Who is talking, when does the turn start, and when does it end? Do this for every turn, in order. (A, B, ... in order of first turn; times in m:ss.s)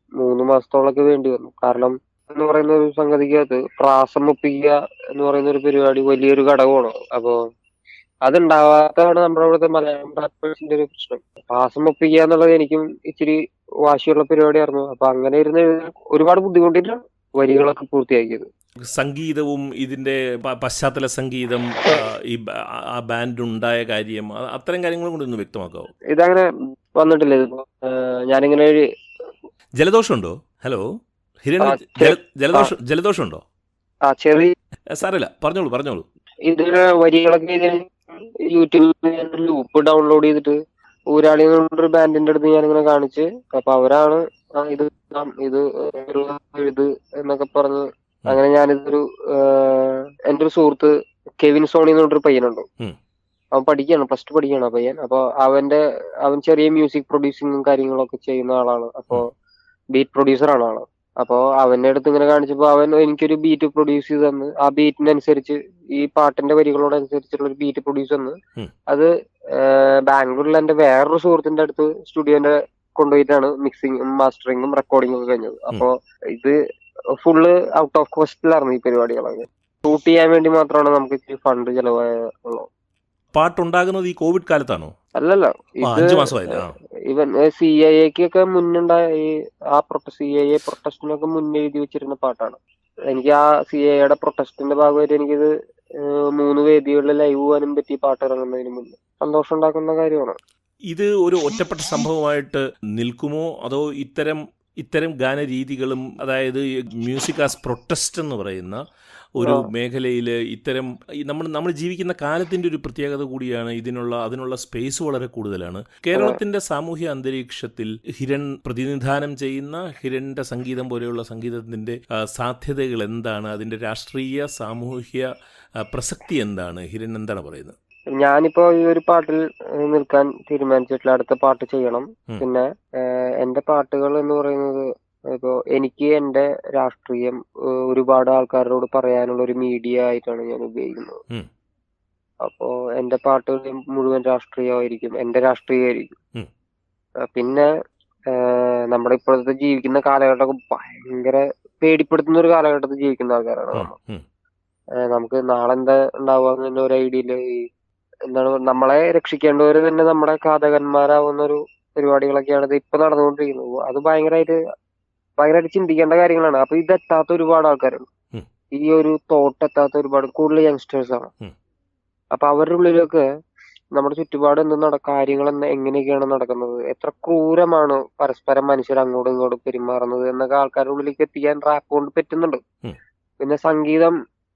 0:00.2-0:07.4 A
0:08.2-0:18.5 A
0:18.8-0:25.9 B
0:26.1-0:28.9 A
0:29.8-0:30.8 B
0:31.4-0:33.4 B
0:31.6-0:32.7 A
0:34.1-0:34.5 A
0:34.9-0:36.0 B
0:36.5-0:37.9 A
0:38.4-0:40.6 A
0:41.1-0:52.7 A
0:53.5-0:59.2 A
0:59.9-1:08.4 A
1:08.9-1:16.6 A
1:17.2-1:22.7 A
1:23.3-1:24.9 B
1:25.2-1:32.6 A
1:25.8-1:26.7 B
1:33.1-1:40.4 A
1:40.9-1:48.8 B
1:49.4-2:05.2 B
1:49.4-1:49.7 A
1:56.1-1:56.4 A
2:05.8-2:07.7 B
2:08.2-2:21.2 A
2:22.4-2:26.1 A
2:27.3-2:27.7 A
2:28.3-2:33.9 A
2:33.7-2:34.2 B
2:35.0-2:37.6 A
2:38.3-2:44.6 A
2:45.4-2:48.1 A
2:48.7-2:51.3 A
2:52.3-2:53.2 A
2:54.0-3:02.6 A
3:03.4-3:04.2 A